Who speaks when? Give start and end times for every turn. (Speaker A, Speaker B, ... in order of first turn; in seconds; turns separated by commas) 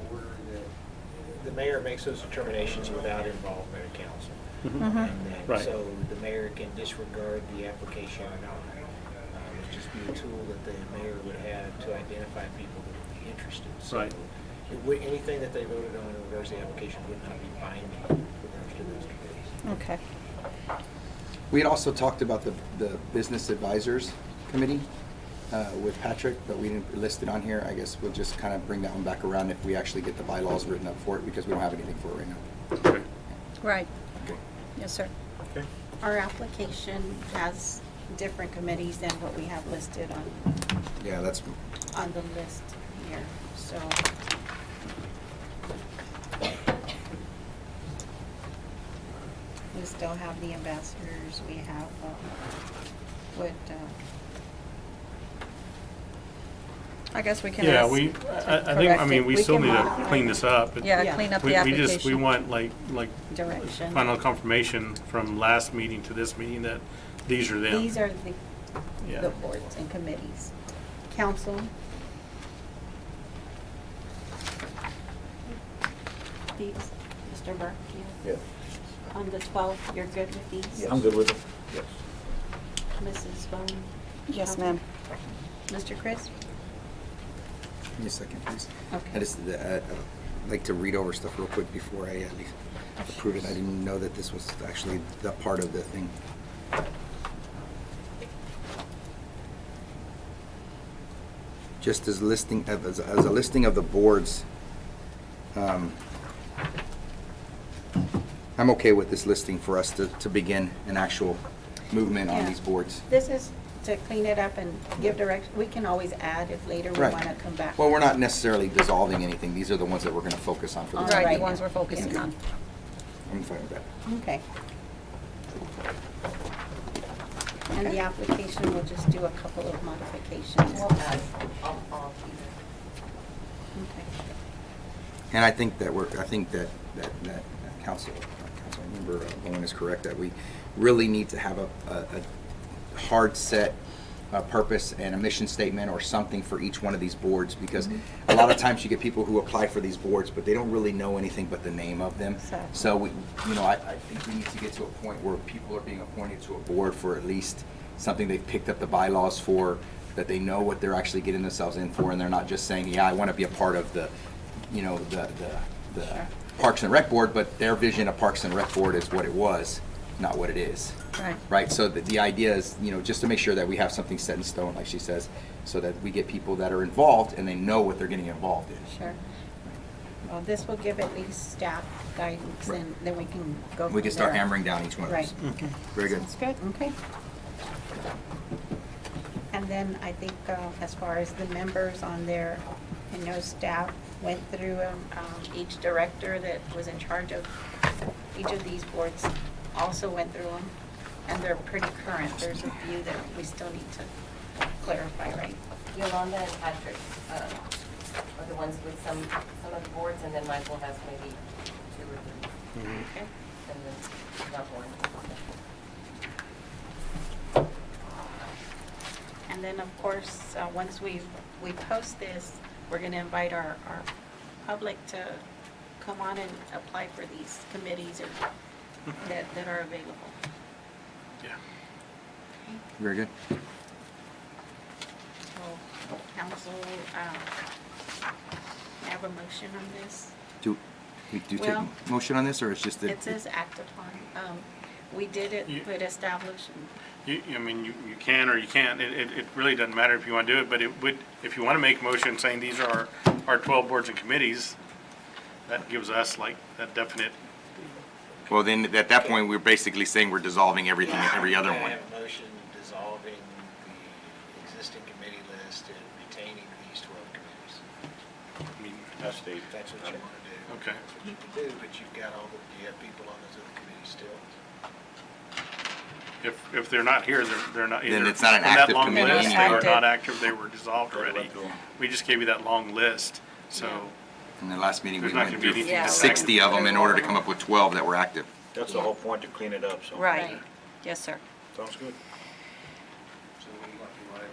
Speaker A: 1.3-8.8, Speaker B: 4.6-4.9, Speaker C: 4.8-5.1, Speaker A: 9.3-19.6, Speaker B: 13.9-14.1, Speaker C: 19.6-20.0, Speaker D: 21.5-24.9, Speaker D: 25.5-32.4, Speaker C: 33.6-33.9, Speaker C: 34.8-35.1, Speaker E: 36.0-40.7, Speaker D: 41.0-41.5, Speaker E: 41.9-44.1, Speaker E: 49.7-52.3, Speaker E: 53.3-54.0, Speaker C: 57.1-62.4, Speaker B: 57.6-67.9, Speaker E: 59.5-60.4, Speaker E: 60.9-61.4, Speaker E: 63.3-64.1, Speaker E: 67.7-68.4, Speaker B: 69.0-69.3, Speaker E: 69.1-70.5, Speaker E: 71.1-71.7, Speaker E: 76.6-78.2, Speaker E: 79.1-81.0, Speaker F: 80.8-81.9, Speaker E: 83.0-84.8, Speaker C: 84.3-84.8, Speaker E: 85.7-86.3, Speaker D: 88.0-96.1, Speaker E: 88.9-89.2, Speaker D: 101.8-104.5, Speaker D: 105.5-106.0, Speaker D: 108.6-113.0, Speaker E: 112.3-117.8, Speaker D: 117.0-117.2, Speaker D: 117.8-121.6, Speaker E: 121.0-122.3, Speaker C: 121.0-122.3, Speaker D: 123.3-123.9, Speaker E: 124.1-124.4, Speaker E: 127.7-130.9, Speaker G: 130.7-132.6, Speaker E: 133.8-134.1, Speaker D: 135.3-142.3, Speaker D: 142.9-143.8, Speaker D: 144.3-164.1, Speaker E: 152.4-152.7, Speaker D: 164.7-171.0, Speaker D: 171.5-178.9, Speaker E: 178.9-179.2, Speaker E: 180.3-184.5, Speaker D: 183.9-186.3, Speaker E: 185.1-186.9, Speaker B: 185.4-185.7, Speaker E: 189.5-197.5, Speaker E: 198.3-200.7, Speaker E: 201.3-204.1, Speaker E: 204.8-205.6, Speaker G: 205.9-207.7, Speaker G: 208.4-212.5, Speaker E: 212.8-213.3, Speaker G: 213.6-215.4, Speaker E: 219.5-224.1, Speaker E: 224.6-225.4, Speaker E: 226.0-228.4, Speaker E: 229.2-230.3, Speaker D: 233.0-233.3, Speaker E: 235.6-237.5, Speaker E: 239.0-240.3, Speaker D: 241.3-243.3, Speaker E: 241.6-241.9, Speaker E: 243.1-246.9, Speaker B: 247.2-254.8, Speaker B: 255.7-258.0, Speaker D: 258.5-262.0, Speaker A: 261.0-267.8, Speaker B: 268.8-269.2, Speaker A: 269.2-274.5, Speaker F: 269.2-269.6, Speaker B: 270.7-271.0, Speaker B: 276.4-284.1, Speaker D: 278.1-280.0, Speaker C: 279.0-280.1, Speaker F: 281.1-281.8, Speaker E: 283.8-284.1, Speaker D: 284.6-288.5, Speaker B: 285.2-286.4, Speaker C: 285.7-287.4, Speaker F: 288.8-290.2, Speaker C: 290.1-291.4, Speaker E: 290.3-290.6, Speaker F: 291.8-292.2, Speaker F: 293.9-294.2